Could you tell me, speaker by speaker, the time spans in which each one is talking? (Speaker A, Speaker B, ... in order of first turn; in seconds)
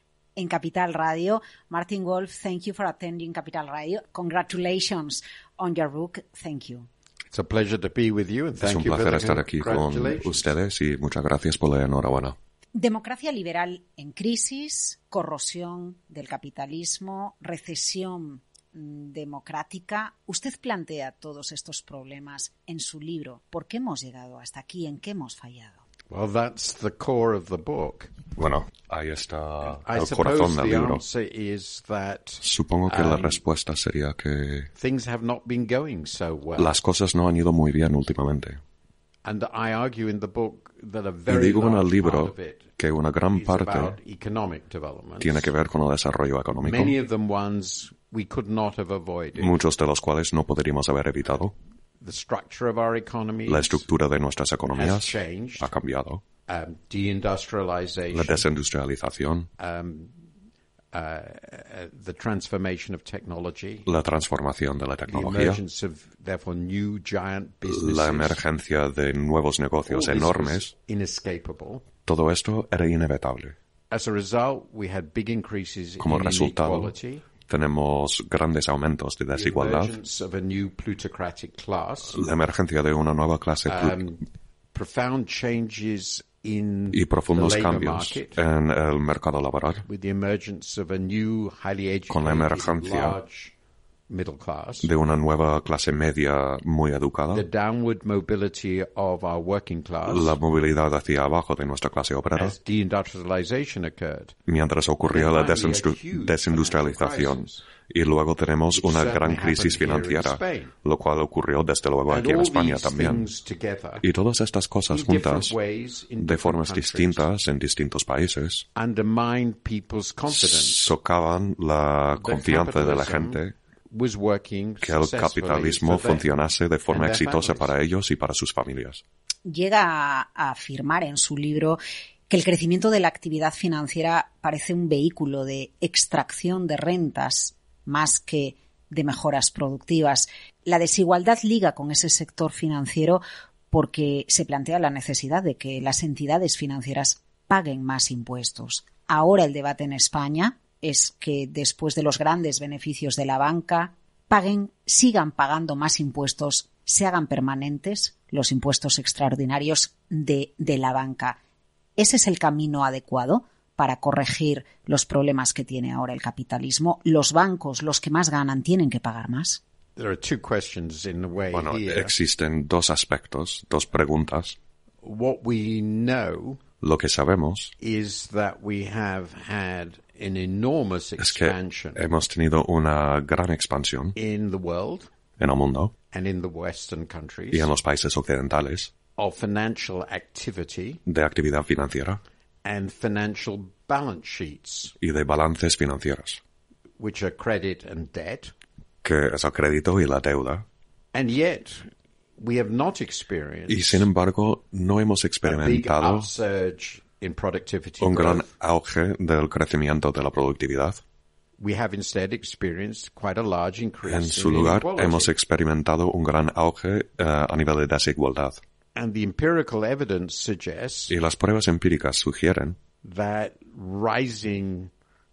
Speaker A: 0.3-6.9, 12.7-25.8, 129.4-161.4, 162.0-169.6
Speaker B: 7.3-10.5, 26.1-28.1, 29.6-33.4, 34.7-36.8, 39.2-42.7, 43.3-45.5, 46.6-49.6, 52.0-53.9, 54.7-55.7, 56.5-58.5, 59.6-60.1, 60.9-63.9, 65.1-68.4, 69.8-71.8, 73.9-77.2, 79.3-82.3, 83.7-84.2, 84.7-88.4, 89.8-93.5, 94.1-94.9, 97.3-100.4, 102.3-104.4, 105.1-107.6, 108.7-110.7, 112.1-114.0, 114.9-117.2, 118.8-120.9, 122.2-126.3, 126.9-127.7, 169.9-172.1, 175.0-176.6, 177.8-182.0, 184.1-185.1, 186.1-187.7, 189.2-191.0, 192.6-194.9, 197.0-198.5, 201.1-204.1, 205.4-208.5, 211.6-215.3, 218.9-221.1, 223.0-224.9
Speaker C: 8.6-12.3, 28.4-31.0, 32.4-34.7, 36.6-38.6, 41.3-43.9, 45.2-46.9, 49.4-51.5, 53.5-56.2, 58.1-59.5, 63.9-65.6, 67.7-70.7, 72.0-73.5, 76.0-76.9, 77.5-80.0, 82.1-84.0, 86.9-89.8, 92.1-93.2, 94.8-97.5, 100.0-102.5, 104.5-113.2, 114.0-115.5, 116.2-118.7, 120.3-123.5, 124.8-129.0, 171.5-174.6, 176.8-177.7, 181.2-184.1, 185.4-185.9, 187.5-188.9, 191.1-192.2, 195.0-196.4, 199.0-200.6, 203.7-206.3, 208.0-211.0, 214.0-218.6, 221.1-222.8